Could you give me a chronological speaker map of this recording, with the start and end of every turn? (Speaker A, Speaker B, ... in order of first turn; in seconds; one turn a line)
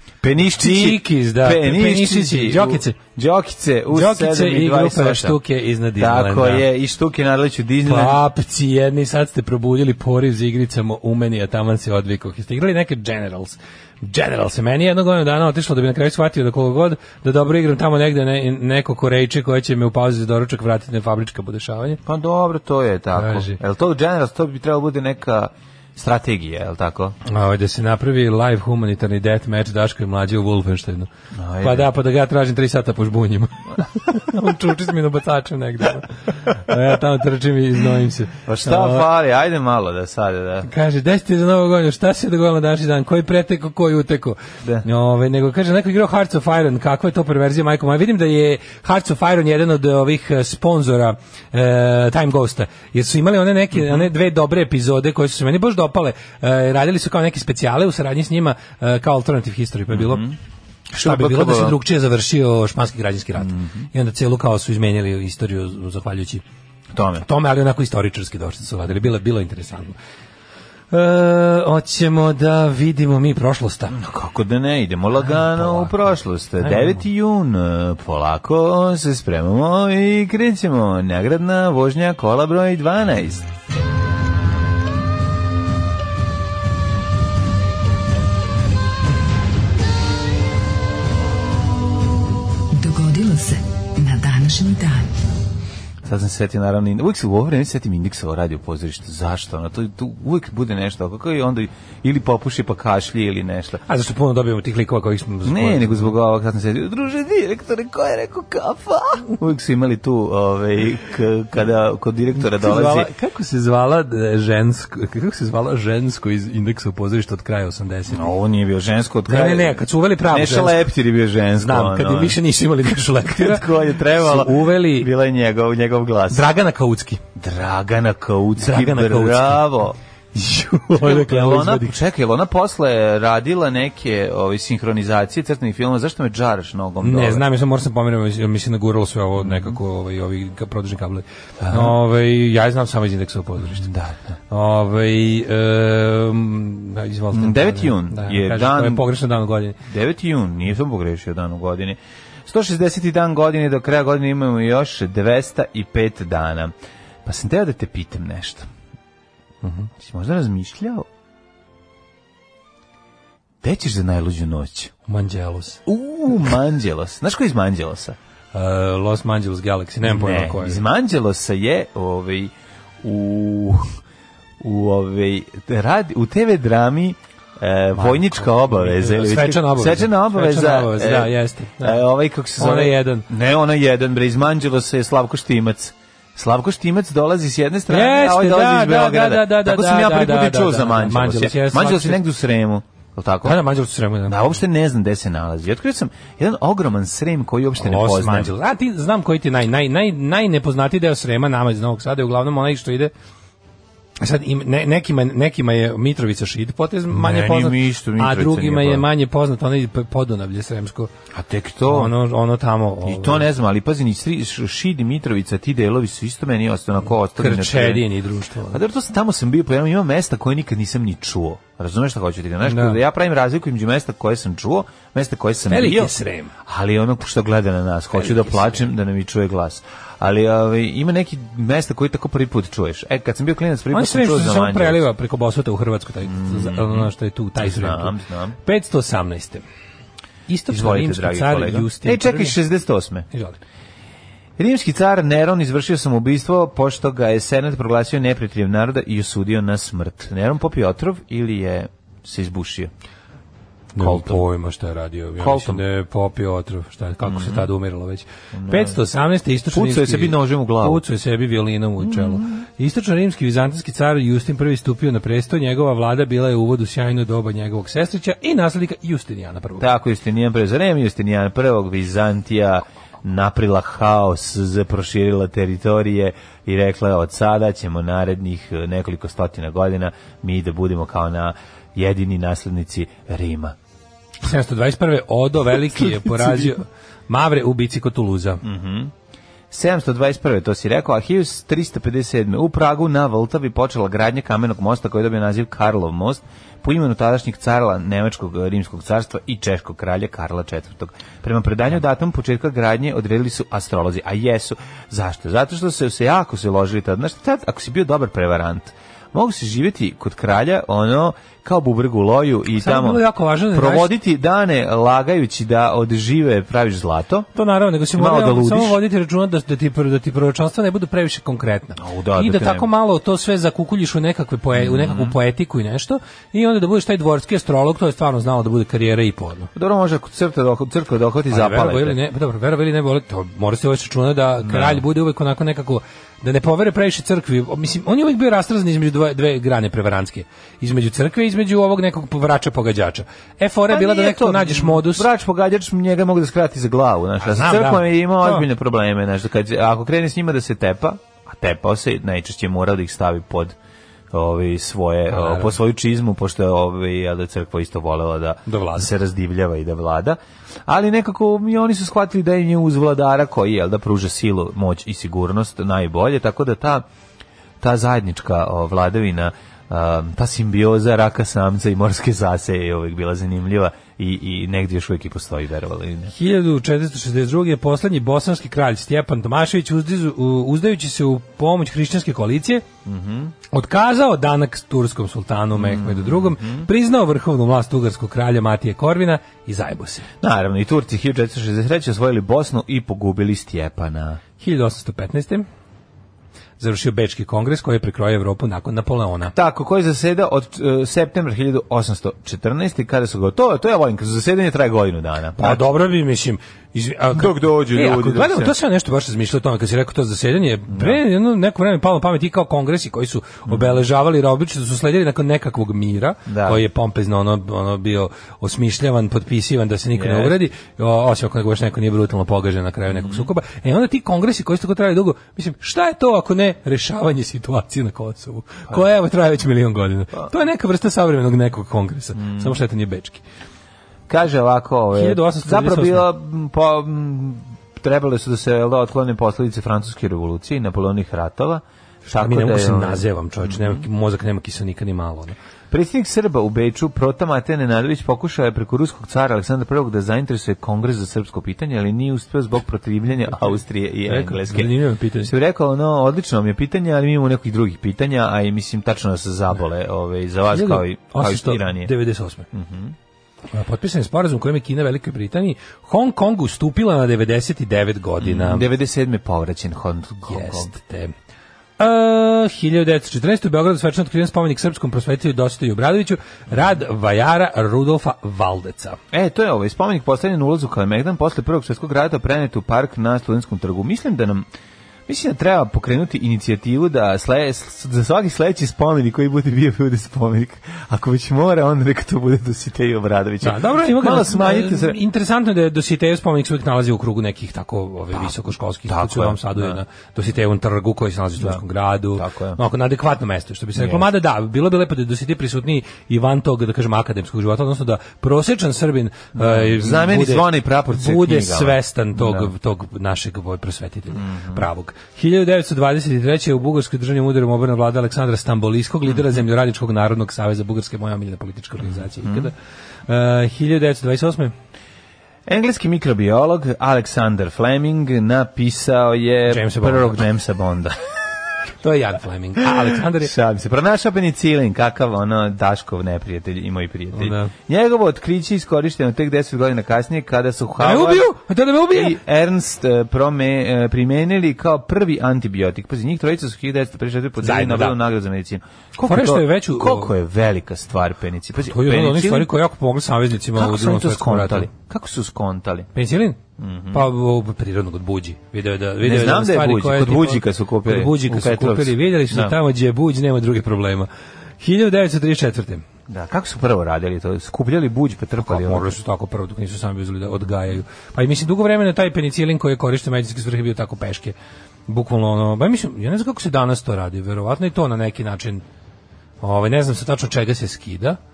Speaker A: 0.2-5.4
Speaker B: 0.6-3.0
Speaker B: 3.9-6.6
Speaker A: 6.0-8.2
Speaker B: 7.8-22.0
Speaker A: 22.1-27.1
Speaker B: 23.1-23.6
Speaker B: 27.2-31.1
Speaker A: 31.3-31.9
Speaker B: 31.6-39.0
Speaker A: 38.5-40.7
Speaker B: 40.6-60.2
Speaker A: 53.7-54.0
Speaker A: 59.9-60.3
Speaker A: 60.9-61.8
Speaker B: 60.9-66.4
Speaker A: 63.4-63.9
Speaker A: 66.9-67.2
Speaker B: 67.2-69.9
Speaker B: 70.9-74.0
Speaker A: 73.9-83.4
Speaker B: 75.2-76.0
Speaker B: 76.6-77.0
Speaker C: 92.8-95.1
Speaker A: 96.0-103.8
Speaker B: 103.9-106.1
Speaker A: 105.4-113.1
Speaker B: 112.3-118.3
Speaker A: 118.1-126.5
Speaker B: 119.3-120.8
Speaker B: 121.6-125.1
Speaker B: 126.3-127.2
Speaker A: 127.3-129.9
Speaker B: 128.6-129.6
Speaker B: 130.3-131.9
Speaker A: 130.9-137.4
Speaker B: 137.0-143.9
Speaker A: 139.4-139.8
Speaker A: 141.6-142.0
Speaker A: 143.6-144.2
Speaker B: 144.5-149.8
Speaker A: 147.3-149.0
Speaker A: 149.9-156.7
Speaker A: 157.2-158.7
Speaker B: 159.6-159.9
Speaker A: 160.0-161.1
Speaker A: 163.6-164.9
Speaker B: 165.1-165.8
Speaker A: 165.8-168.2
Speaker B: 168.5-170.8
Speaker A: 170.0-173.8
Speaker A: 174.6-193.6
Speaker B: 177.9-182.0
Speaker B: 182.6-183.3
Speaker B: 187.9-192.2
Speaker B: 193.4-194.4
Speaker A: 194.3-198.5
Speaker B: 197.8-203.1
Speaker B: 204.2-211.1
Speaker A: 207.1-209.1
Speaker A: 211.3-212.1
Speaker B: 211.9-213.4
Speaker A: 213.0-218.1
Speaker B: 217.4-218.8
Speaker A: 218.7-235.1
Speaker B: 222.6-223.0
Speaker B: 225.7-226.5
Speaker B: 228.1-228.8
Speaker B: 233.9-239.6
Speaker A: 236.2-238.6
Speaker B: 240.5-242.6
Speaker A: 240.7-243.2
Speaker B: 243.3-243.6
Speaker A: 244.6-252.9
Speaker A: 253.9-254.4
Speaker B: 253.9-269.9
Speaker A: 255.4-255.8
Speaker A: 257.2-257.7
Speaker A: 258.5-259.0
Speaker A: 259.7-261.0
Speaker A: 262.0-262.6
Speaker A: 269.8-283.7
Speaker B: 284.4-288.6
Speaker A: 285.7-286.8
Speaker A: 288.6-289.1
Speaker A: 289.7-317.5
Speaker B: 312.8-314.1
Speaker B: 317.5-329.7
Speaker A: 318.1-319.0
Speaker A: 322.0-322.9
Speaker A: 324.7-325.4
Speaker A: 329.7-332.2
Speaker B: 331.5-345.2
Speaker A: 334.6-335.0
Speaker A: 343.9-353.8
Speaker B: 347.4-348.6
Speaker A: 354.3-367.0
Speaker B: 355.3-355.7
Speaker B: 358.7-359.1
Speaker A: 367.8-376.3
Speaker B: 376.3-382.8
Speaker A: 383.0-383.5
Speaker B: 383.7-390.3
Speaker A: 385.7-386.9
Speaker A: 390.4-394.4
Speaker B: 394.6-395.6
Speaker B: 396.8-399.5
Speaker A: 399.5-405.8
Speaker B: 405.6-433.4
Speaker A: 407.3-408.7
Speaker A: 410.9-411.2
Speaker A: 413.7-414.0
Speaker A: 416.5-416.8
Speaker A: 420.1-420.6
Speaker A: 423.1-423.4
Speaker A: 432.4-432.8
Speaker A: 434.3-444.0
Speaker B: 435.1-436.2
Speaker B: 442.3-445.6
Speaker A: 445.9-462.1
Speaker B: 454.3-455.5
Speaker B: 460.7-462.7
Speaker A: 462.7-463.1
Speaker B: 463.7-468.9
Speaker A: 468.4-470.9
Speaker B: 470.4-471.3
Speaker B: 472.0-479.2
Speaker A: 479.3-484.6
Speaker A: 485.3-495.2
Speaker B: 493.6-522.7
Speaker A: 499.1-500.0
Speaker A: 502.3-502.8
Speaker A: 503.9-504.2
Speaker A: 509.5-512.7
Speaker A: 514.3-514.9
Speaker A: 522.1-522.7
Speaker B: 523.3-524.7
Speaker A: 525.7-531.4
Speaker B: 529.7-530.4
Speaker B: 532.0-533.5
Speaker A: 533.3-541.5
Speaker B: 537.3-537.7
Speaker B: 541.0-542.4
Speaker A: 542.1-552.7
Speaker B: 547.6-548.2
Speaker B: 549.2-550.3
Speaker B: 551.9-554.9
Speaker A: 553.7-556.1
Speaker B: 556.1-556.6
Speaker A: 556.8-557.2
Speaker B: 557.1-564.3
Speaker A: 559.2-562.7
Speaker B: 564.8-566.0
Speaker A: 566.3-569.1
Speaker B: 568.6-574.5
Speaker B: 575.1-578.8
Speaker B: 579.6-581.4